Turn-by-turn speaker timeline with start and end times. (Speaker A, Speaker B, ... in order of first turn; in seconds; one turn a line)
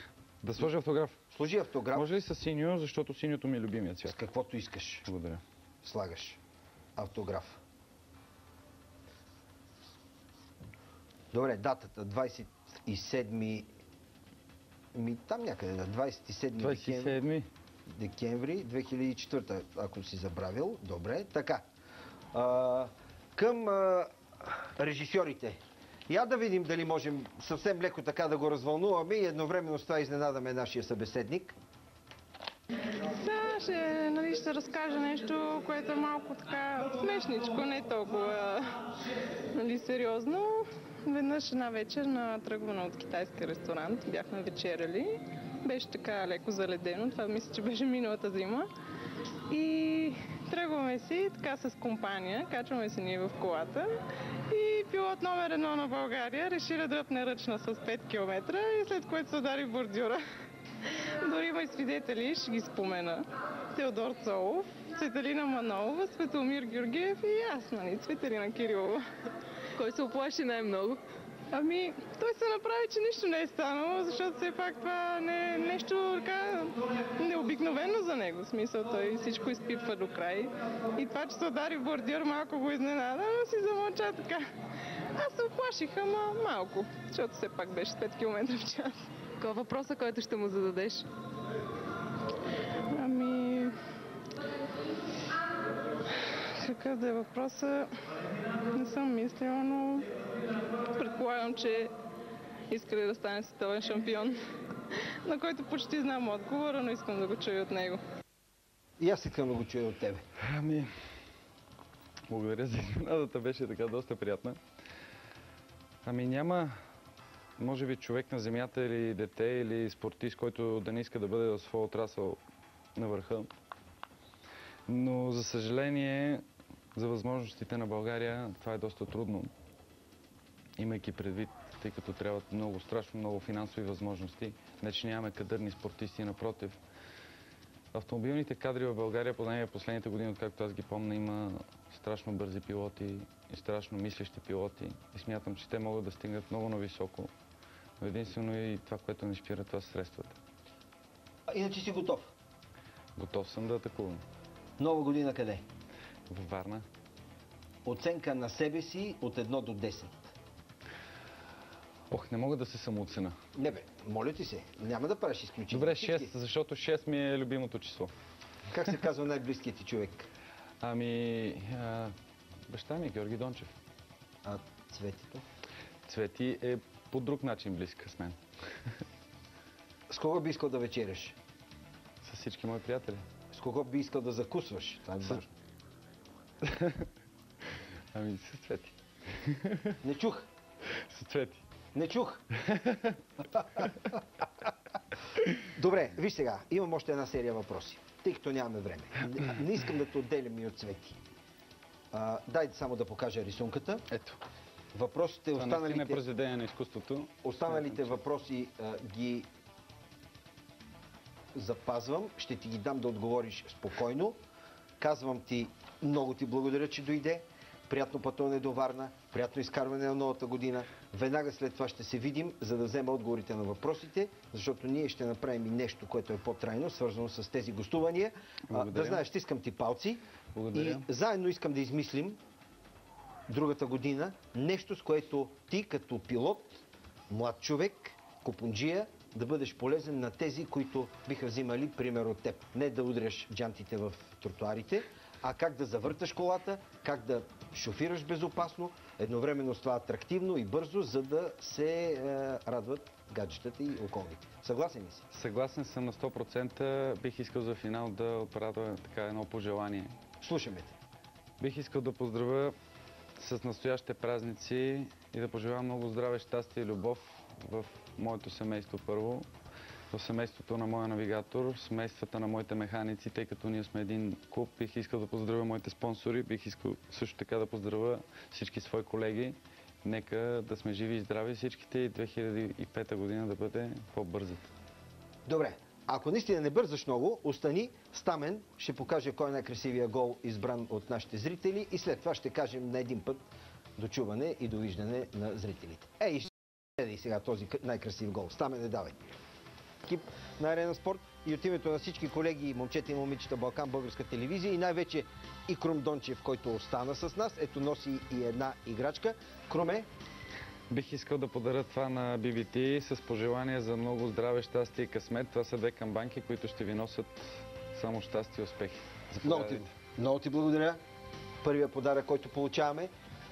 Speaker A: 0.4-1.2
Speaker B: 1.3-2.1
Speaker A: 1.9-4.2
Speaker B: 4.0-5.1
Speaker A: 5.1-5.4
Speaker B: 5.8-6.4
Speaker B: 7.0-7.6
Speaker B: 11.3-13.7
Speaker B: 14.9-17.2
Speaker A: 16.6-17.5
Speaker B: 17.9-21.6
Speaker B: 22.3-31.6
Speaker C: 33.1-38.8
Speaker C: 39.5-48.7
Speaker C: 49.5-53.9
Speaker C: 54.5-60.2
Speaker C: 60.9-69.0
Speaker D: 69.8-71.0
Speaker C: 71.5-84.5
Speaker C: 85.2-89.1
Speaker D: 89.4-91.0
Speaker C: 92.9-93.8
Speaker C: 96.2-97.9
Speaker C: 98.7-100.1
Speaker C: 100.8-101.9
Speaker C: 102.7-104.4
Speaker C: 104.9-108.0
Speaker B: 109.0-110.2
Speaker A: 110.4-110.9
Speaker A: 112.3-114.6
Speaker A: 116.0-116.7
Speaker A: 117.6-122.4
Speaker A: 123.0-123.5
Speaker A: 124.9-126.4
Speaker A: 127.0-129.5
Speaker A: 130.8-136.8
Speaker A: 137.9-147.3
Speaker A: 148.0-150.4
Speaker B: 151.5-152.3
Speaker A: 153.2-154.2
Speaker B: 154.8-155.6
Speaker A: 156.3-156.9
Speaker B: 157.8-160.3
Speaker A: 162.1-163.4
Speaker B: 163.6-166.3
Speaker A: 165.7-168.1
Speaker B: 168.7-170.3
Speaker A: 170.8-172.2
Speaker A: 172.7-173.8
Speaker B: 174.4-175.4
Speaker A: 176.1-178.4
Speaker B: 180.1-181.4
Speaker A: 182.2-183.3
Speaker B: 183.5-185.5
Speaker A: 186.6-187.1
Speaker A: 188.1-190.0
Speaker B: 190.0-190.5
Speaker A: 190.9-191.6
Speaker B: 191.9-192.4
Speaker A: 192.5-193.2
Speaker A: 193.8-194.2
Speaker B: 195.7-201.2
Speaker B: 202.1-204.1
Speaker A: 204.1-204.4
Speaker B: 204.9-206.2
Speaker A: 205.6-208.2
Speaker B: 207.4-209.5
Speaker B: 211.5-214.4
Speaker B: 215.0-230.2
Speaker A: 228.7-229.2
Speaker A: 230.6-231.0
Speaker B: 230.7-232.4
Speaker B: 233.5-255.2
Speaker A: 255.3-260.1
Speaker B: 260.4-261.0
Speaker A: 261.6-262.7
Speaker A: 263.4-269.5
Speaker A: 270.1-284.7
Speaker B: 285.5-293.5
Speaker B: 294.0-299.3
Speaker B: 300.0-310.1
Speaker A: 310.9-319.9
Speaker B: 319.4-321.0
Speaker B: 321.6-323.1